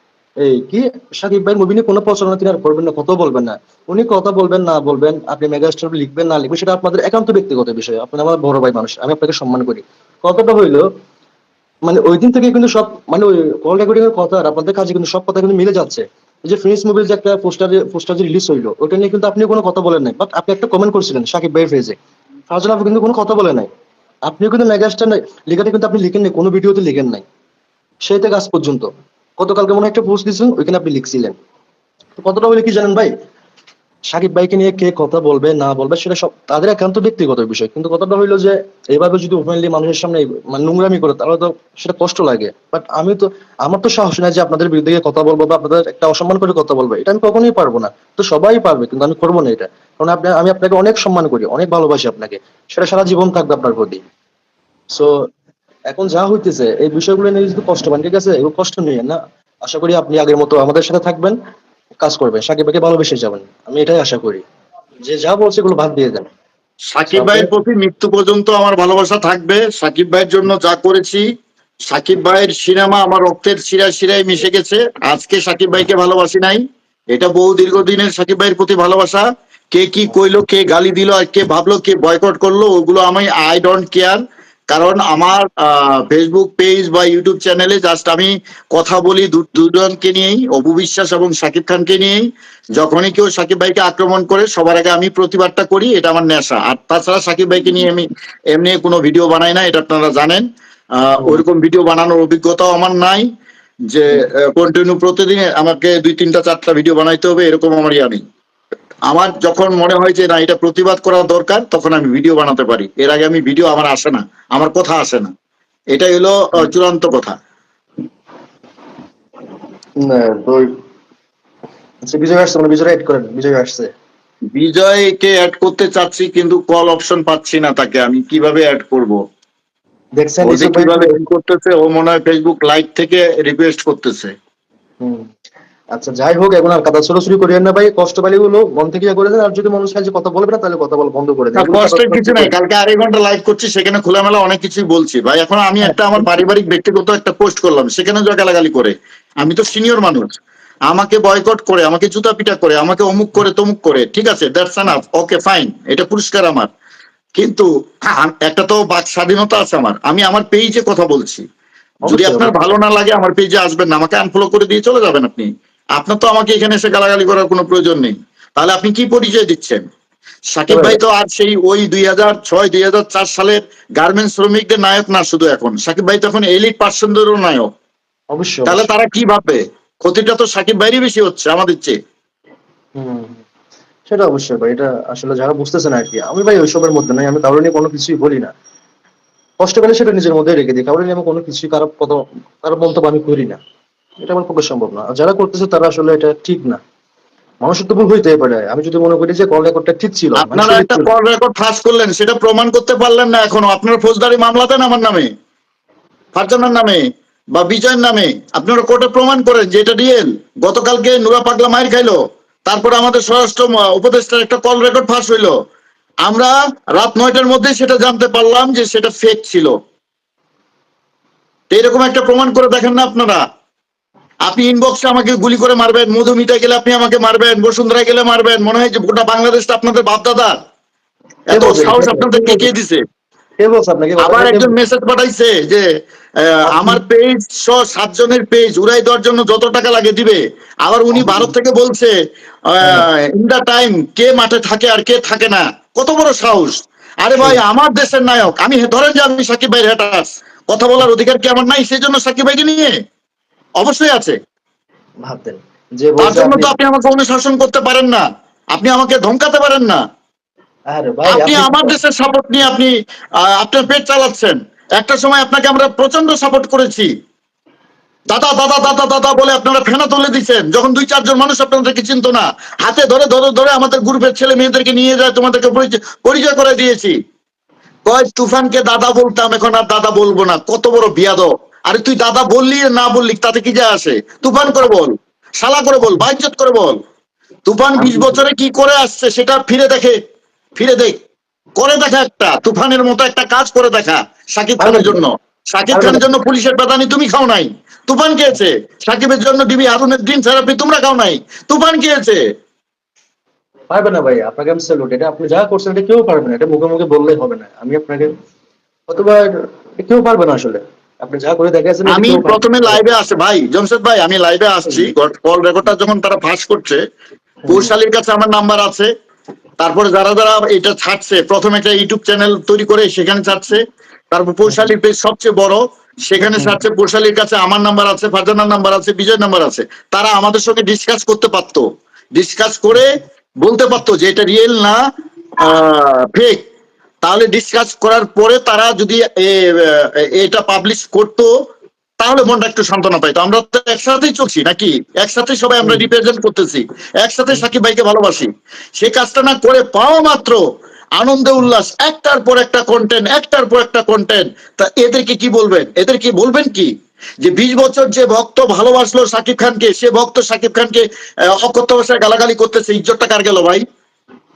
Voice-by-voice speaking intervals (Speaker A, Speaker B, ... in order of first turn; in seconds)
Speaker A: 0.4-10.9, 11.8-22.0, 22.5-23.7, 24.2-27.2, 28.0-28.9, 29.4-31.4, 32.2-33.1, 34.1-54.0, 55.9-61.4, 62.0-64.4, 65.0-66.2, 67.1-67.5, 101.2-101.4, 120.0-120.7, 122.1-123.9, 130.2-131.2, 135.0-135.2, 135.9-142.5, 145.8-146.3, 162.0-162.6, 170.7-171.0, 178.3-178.9, 182.9-183.4, 184.1-188.5, 189.6-193.6, 194.2-196.8, 197.6-201.1, 231.5-232.7, 233.6-234.8, 236.7-237.0, 241.1-241.5, 255.2-256.7, 260.9-261.9, 288.0-288.4, 294.8-295.2, 295.9-296.2, 303.9-308.3, 309.1-313.0, 317.6-317.9, 326.4-326.8, 345.8-346.1
Speaker B: 66.9-71.2, 71.9-84.2, 84.7-92.2, 92.8-100.4, 101.0-103.3, 103.9-108.2, 109.1-115.3, 115.9-117.3, 124.5-129.2, 130.4-134.3, 141.6-150.3, 150.9-156.7, 157.4-161.4, 162.1-169.8, 170.5-177.7, 178.7-181.9, 200.4-205.3, 206.3-207.0, 207.5-215.5, 216.2-219.7, 221.7-223.4, 224.4-230.6, 231.5-233.0, 234.2-235.8, 236.4-242.1, 242.7-252.9, 253.8-254.3, 256.2-260.0, 261.3-262.9, 263.4-267.1, 268.3-277.1, 278.1-287.0, 287.6-290.1, 290.8-291.2, 291.8-302.4, 312.1-317.0, 317.7-319.1, 319.8-335.0, 335.6-336.6, 337.2-341.5, 342.2-350.6, 351.2-356.9, 357.4-361.0, 361.6-363.8